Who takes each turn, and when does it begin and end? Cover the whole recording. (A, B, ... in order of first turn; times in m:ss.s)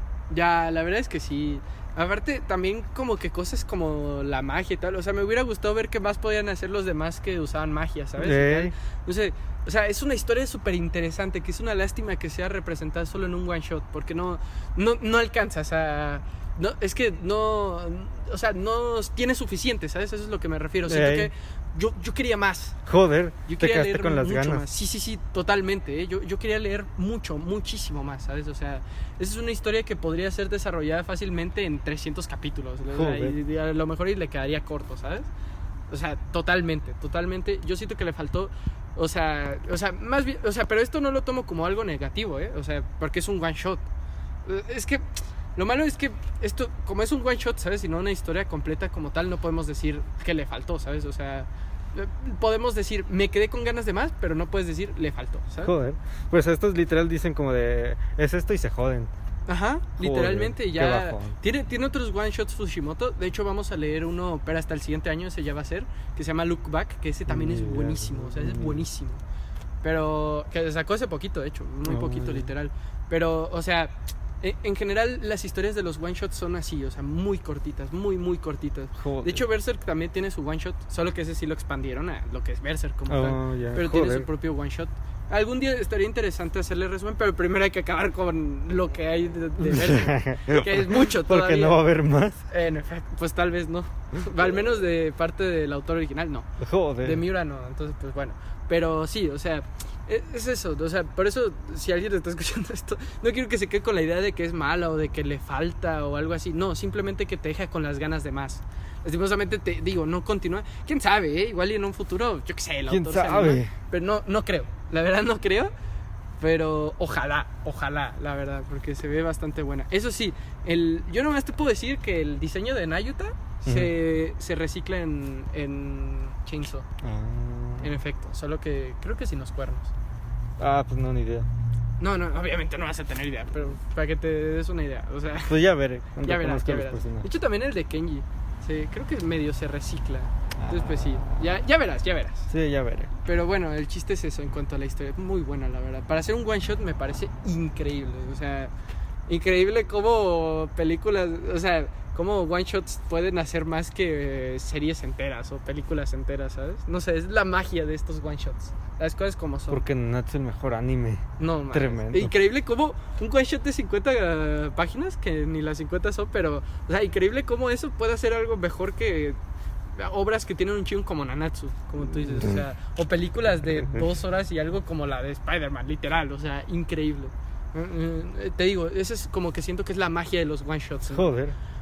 0:00.3-0:22.8 A
0:08.2-0:08.7 B
0:20.9-0:21.3 B
0:22.8-0:24.6 B
0:23.4-0:35.3 A
0:32.9-0:33.3 B
0:35.9-0:43.8 A
0:44.4-0:55.7 A
0:55.6-0:59.1 B
0:59.5-1:09.2 A
1:00.0-1:01.3 B
1:07.3-1:08.8 B
1:09.8-1:31.8 A
1:11.8-1:12.5 B
1:19.0-1:19.4 B
1:23.1-1:24.3 B
1:29.6-1:32.4 B
1:32.5-1:36.5 A
1:36.6-1:37.2 B
1:37.0-1:55.7 A
1:52.9-1:53.7 B
1:56.4-2:06.9 A
2:03.6-2:03.9 B
2:07.0-2:07.9 B
2:07.8-2:09.9 A
2:10.6-2:11.5 B
2:12.0-2:15.6 A
2:15.5-2:17.2 B
2:16.2-2:22.5 A
2:20.6-2:21.0 B
2:22.5-2:23.1 B
2:23.2-2:28.7 A
2:29.3-2:39.8 A
2:39.7-2:42.3 B
2:41.4-2:49.4 A
2:50.0-3:01.3 A
2:52.2-2:52.6 B
3:01.1-3:01.6 B